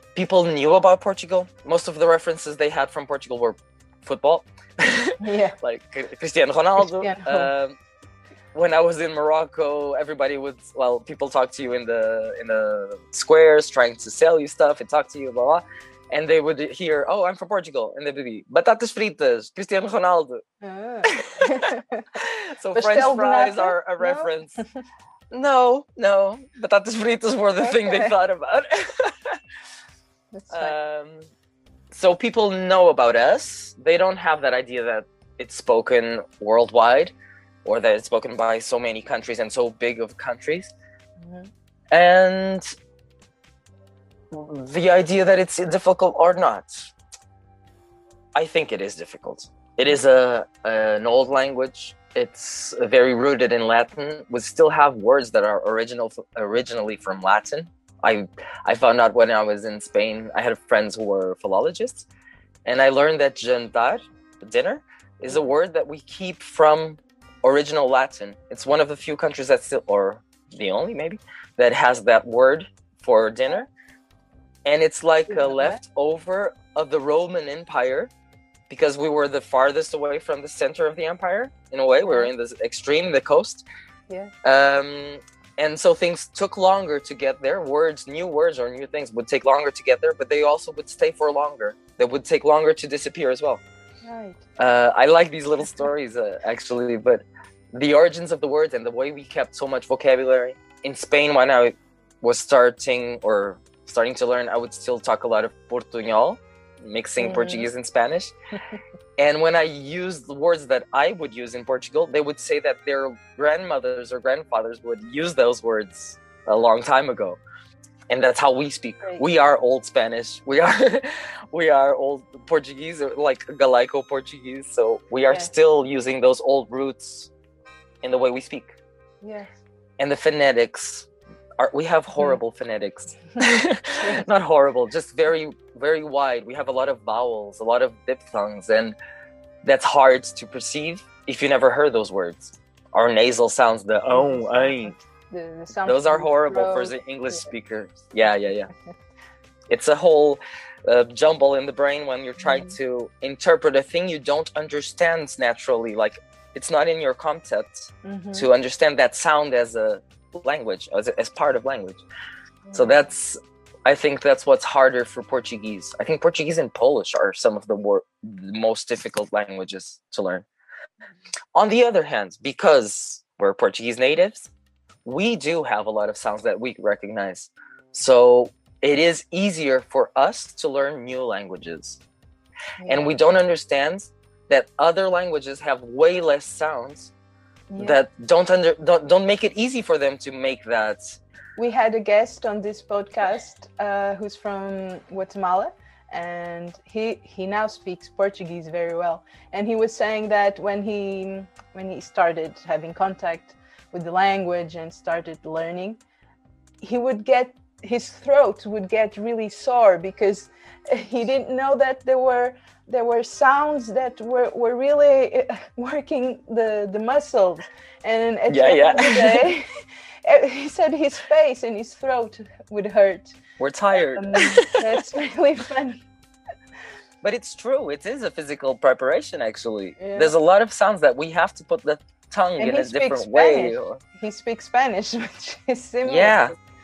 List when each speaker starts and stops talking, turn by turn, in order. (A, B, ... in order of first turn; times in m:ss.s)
0:00.1-0:07.8 A
0:05.2-0:05.6 B
0:06.8-0:07.5 B
0:08.5-0:20.4 A
0:20.6-0:22.1 B
0:21.0-0:24.6 A
0:22.7-0:24.6 B
0:25.3-0:29.4 A
0:27.6-0:28.1 B
0:30.3-0:30.7 B
0:30.5-0:31.3 A
0:31.9-0:37.1 A
0:37.6-0:40.7 A
0:41.2-0:41.5 B
0:41.9-0:42.6 A
0:44.3-0:46.9 A
0:48.3-1:02.1 A
1:02.6-1:13.7 A
1:14.6-1:18.1 A
1:15.3-1:15.8 B
1:18.7-1:23.6 A
1:22.0-1:22.3 B
1:24.4-1:33.6 A
1:34.0-1:34.4 B
1:34.6-1:48.3 A
1:47.2-1:47.7 B
1:49.2-1:57.4 A
1:58.1-2:07.3 A
2:08.0-2:08.7 A
2:09.2-2:09.6 B
2:10.0-2:11.1 A
2:11.6-2:19.0 A
2:19.6-2:24.9 A
2:24.1-2:27.5 B
2:25.8-2:28.7 A
2:29.7-2:42.0 A
2:32.4-2:32.8 B
2:38.0-2:38.5 B
2:42.7-2:43.0 B
2:42.7-2:50.4 A
2:51.5-2:54.5 A
2:55.0-3:02.0 A
3:02.8-3:03.1 B
3:02.9-3:07.1 A
3:07.7-3:08.0 B
3:07.8-3:11.2 A
3:11.6-3:26.0 B
3:26.8-3:43.4 B
3:38.5-3:39.5 A
3:43.6-3:44.8 A
3:43.9-3:46.0 B
3:47.2-3:54.0 A
3:50.0-3:50.3 B
3:52.6-3:56.5 B
3:56.0-3:56.5 A